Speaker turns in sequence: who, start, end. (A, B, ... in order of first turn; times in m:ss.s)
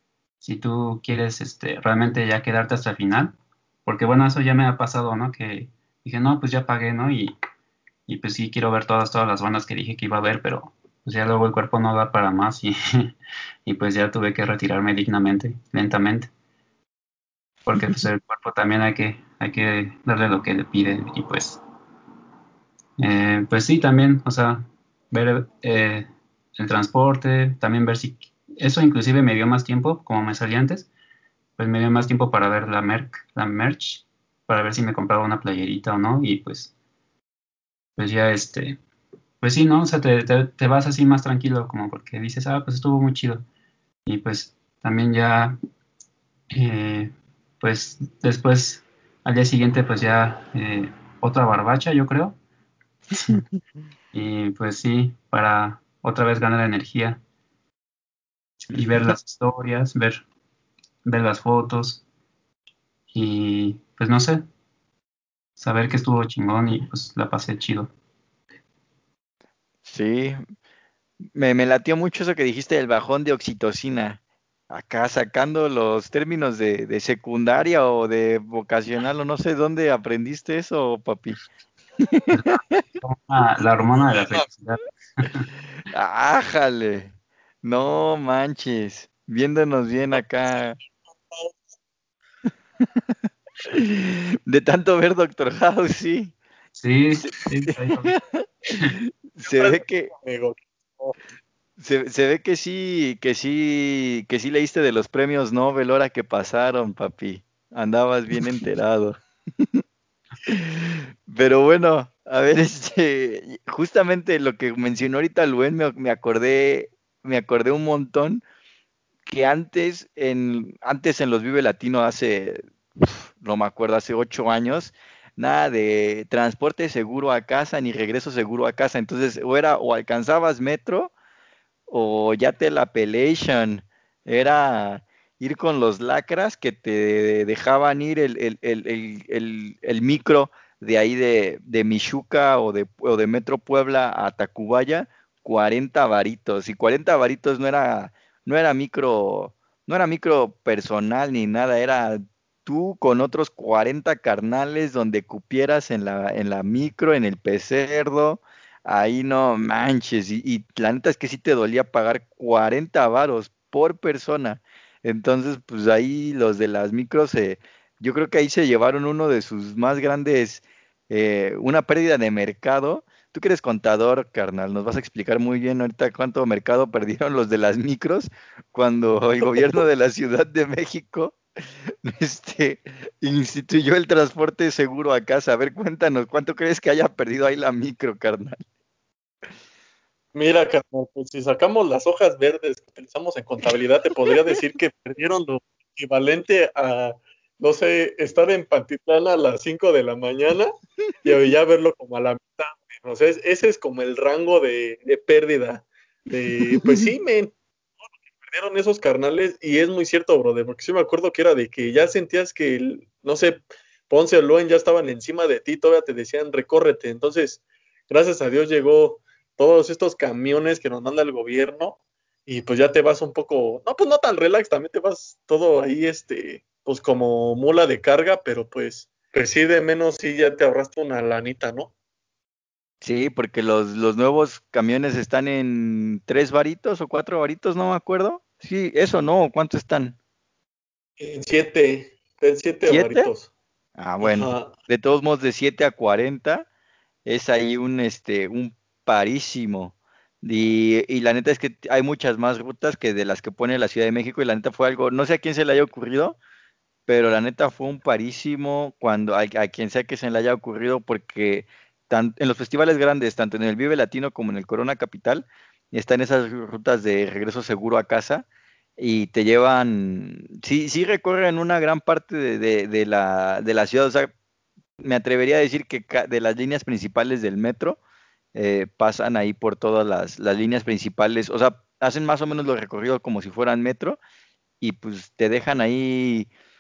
0:00.4-0:07.3 A
0:08.1-0:13.1 A
0:13.7-0:16.3 A
0:17.7-0:21.6 A
0:23.0-0:30.9 A
0:31.6-0:36.7 A
0:38.0-0:38.8 A
0:39.4-0:43.5 A
0:44.1-0:45.6 A
0:46.5-0:52.4 A
0:53.1-0:53.4 A
0:54.1-0:57.2 A
0:58.6-1:00.2 A
1:01.0-1:02.0 A
1:03.1-1:04.4 A
1:05.6-1:07.9 A
1:09.8-1:10.4 B
1:11.4-1:21.4 B
1:22.0-1:22.8 B
1:22.3-1:25.5 A
1:24.1-1:24.5 C
1:25.9-1:27.1 B
1:27.6-1:30.8 B
1:31.3-1:31.6 C
1:33.0-1:36.4 B
1:36.8-1:38.2 A
1:37.3-1:40.1 B
1:38.7-1:39.0 A
1:39.5-1:41.2 C
1:41.8-1:49.8 B
1:50.4-1:58.4 B
1:59.3-2:11.1 B
2:11.9-3:08.6 B
3:10.4-3:20.7 C
3:21.2-3:27.6 C
3:26.7-3:27.1 B
3:28.4-3:51.9 C
3:53.0-4:00.2 B
4:01.2-4:03.5 C
4:02.9-4:03.3 B
4:04.0-4:06.7 B
4:04.2-4:04.7 C
4:07.3-4:16.4 B
4:17.1-4:28.4 B
4:29.0-4:34.3 B
4:35.0-4:38.0 B
4:38.6-4:44.2 B
4:44.8-4:46.5 B